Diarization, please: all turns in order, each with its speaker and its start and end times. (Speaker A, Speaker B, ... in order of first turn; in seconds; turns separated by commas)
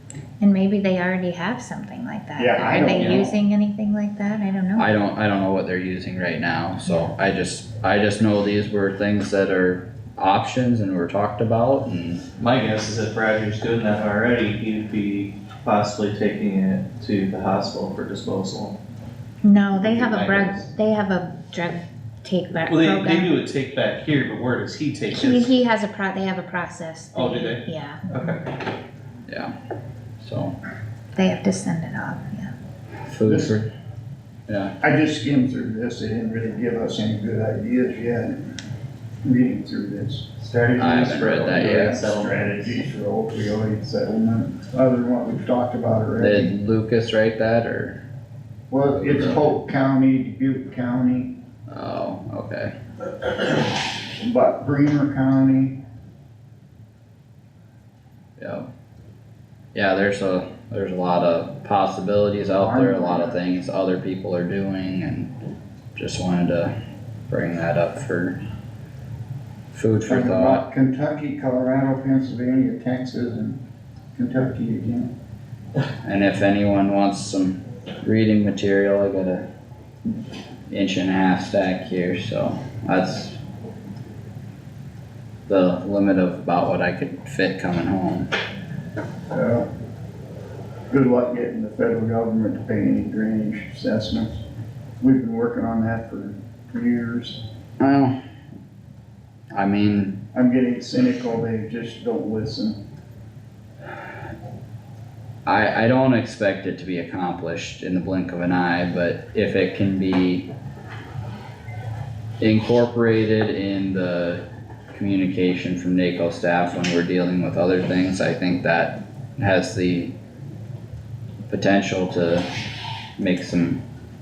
Speaker A: 0.4-4.9, Speaker B: 2.4-3.3, Speaker C: 2.6-3.2, Speaker D: 3.0-3.2, Speaker C: 4.8-12.2, Speaker D: 12.4-18.8, Speaker A: 19.4-23.3, Speaker D: 19.7-20.7, Speaker D: 22.7-25.6, Speaker A: 25.1-28.1, Speaker D: 27.1-28.4, Speaker C: 29.3-29.5, Speaker C: 30.2-30.6, Speaker A: 31.1-32.5, Speaker C: 33.1-33.7, Speaker B: 33.3-33.6, Speaker C: 34.5-34.8, Speaker B: 34.8-38.5, Speaker B: 39.2-46.5, Speaker D: 40.4-42.8, Speaker C: 40.8-42.0, Speaker C: 46.2-48.0, Speaker B: 48.7-51.3, Speaker C: 49.0-49.5, Speaker C: 51.7-52.7, Speaker B: 54.2-55.8, Speaker C: 58.4-58.7, Speaker C: 59.7-65.3, Speaker B: 62.6-63.4, Speaker C: 66.0-66.7, Speaker C: 67.3-68.4, Speaker C: 69.7-70.6, Speaker B: 70.1-73.6, Speaker B: 74.2-75.1, Speaker C: 76.0-79.5, Speaker C: 80.7-83.4, Speaker C: 85.5-88.3, Speaker B: 89.3-89.7, Speaker B: 90.9-94.4, Speaker B: 95.0-97.4, Speaker C: 97.8-98.2, Speaker C: 99.5-100.2, Speaker B: 100.3-102.8, Speaker C: 105.5-110.5, Speaker C: 112.4-120.1, Speaker C: 121.5-122.5, Speaker C: 123.2-123.8